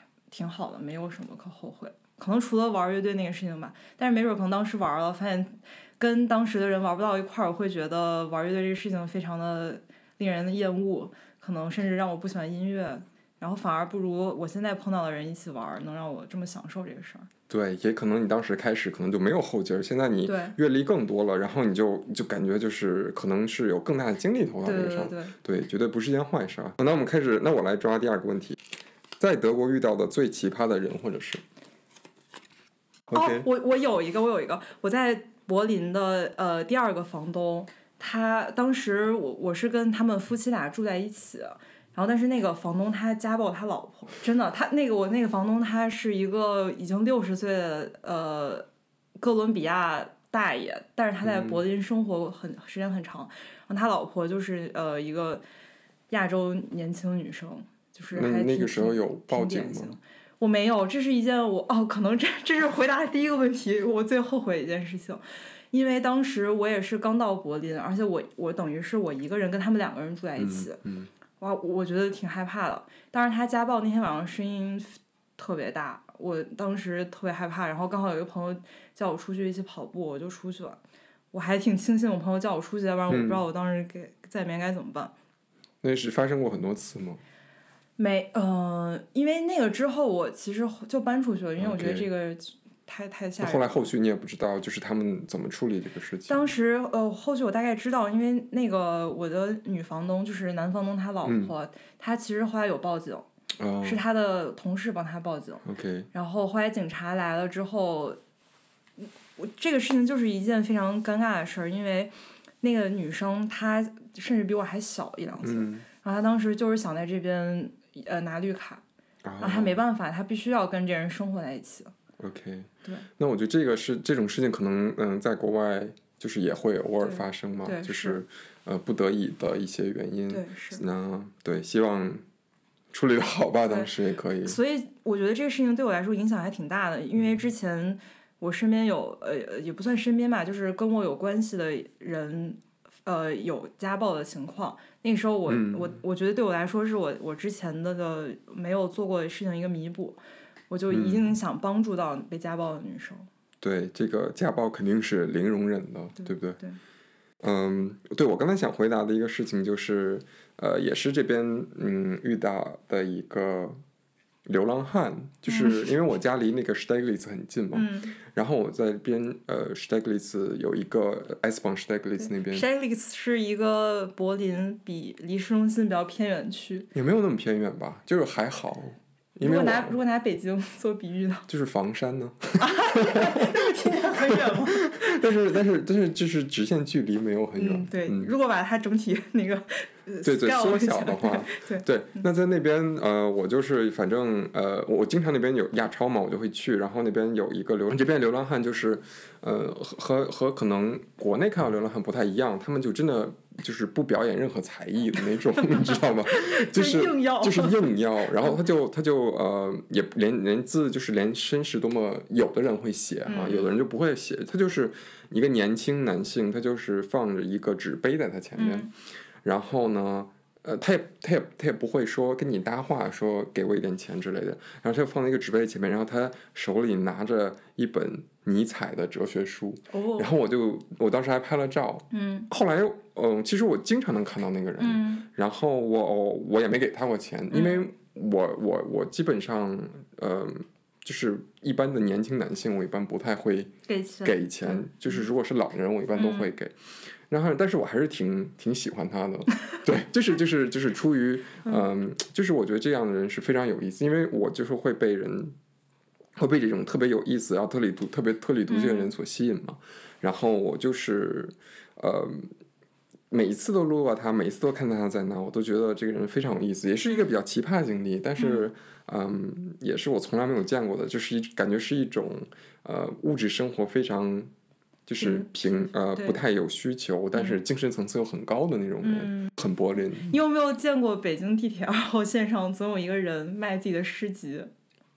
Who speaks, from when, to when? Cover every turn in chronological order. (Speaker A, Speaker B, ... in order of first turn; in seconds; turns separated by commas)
Speaker A: 0.3-17.3, Speaker B: 17.5-28.6, Speaker A: 20.2-20.6, Speaker A: 24.6-25.3, Speaker B: 29.2-31.4, Speaker B: 33.1-33.5, Speaker A: 33.1-48.7, Speaker A: 49.2-55.4, Speaker B: 51.2-51.6, Speaker A: 56.1-70.8, Speaker B: 58.1-60.0, Speaker B: 70.4-71.1, Speaker A: 71.4-80.8, Speaker A: 81.3-85.1, Speaker B: 83.1-83.4, Speaker B: 85.8-87.2, Speaker A: 88.0-93.9, Speaker B: 91.6-92.0, Speaker B: 93.4-96.4, Speaker A: 96.3-103.2, Speaker B: 101.2-101.5, Speaker B: 103.6-104.0, Speaker A: 103.8-108.2, Speaker B: 105.6-106.1, Speaker A: 109.0-118.8, Speaker B: 115.4-115.8, Speaker B: 119.2-119.8, Speaker A: 119.4-121.9, Speaker B: 122.2-132.2, Speaker A: 127.0-128.2, Speaker A: 130.3-130.8, Speaker B: 132.9-134.6, Speaker A: 134.4-153.3, Speaker B: 145.5-146.0, Speaker B: 150.9-151.3, Speaker B: 153.6-156.6, Speaker A: 156.2-156.8, Speaker B: 157.4-163.8, Speaker B: 164.4-172.6, Speaker A: 165.5-165.9, Speaker A: 167.7-168.2, Speaker A: 172.2-176.9, Speaker B: 176.9-180.0, Speaker A: 179.4-181.5, Speaker B: 181.5-188.3, Speaker A: 182.6-185.1, Speaker A: 187.6-191.8, Speaker B: 190.2-218.9, Speaker A: 205.6-207.8, Speaker A: 213.3-213.7, Speaker A: 218.6-218.9, Speaker B: 219.4-246.7, Speaker A: 229.9-230.3, Speaker A: 232.1-232.5, Speaker A: 234.8-235.3, Speaker A: 237.5-237.8, Speaker A: 243.9-245.2, Speaker A: 246.2-246.5, Speaker B: 247.3-255.5, Speaker B: 256.4-262.5, Speaker A: 258.7-259.1, Speaker B: 263.3-274.5, Speaker A: 268.4-268.6, Speaker B: 275.1-280.4, Speaker A: 275.2-276.4, Speaker A: 279.0-279.5, Speaker A: 280.3-284.7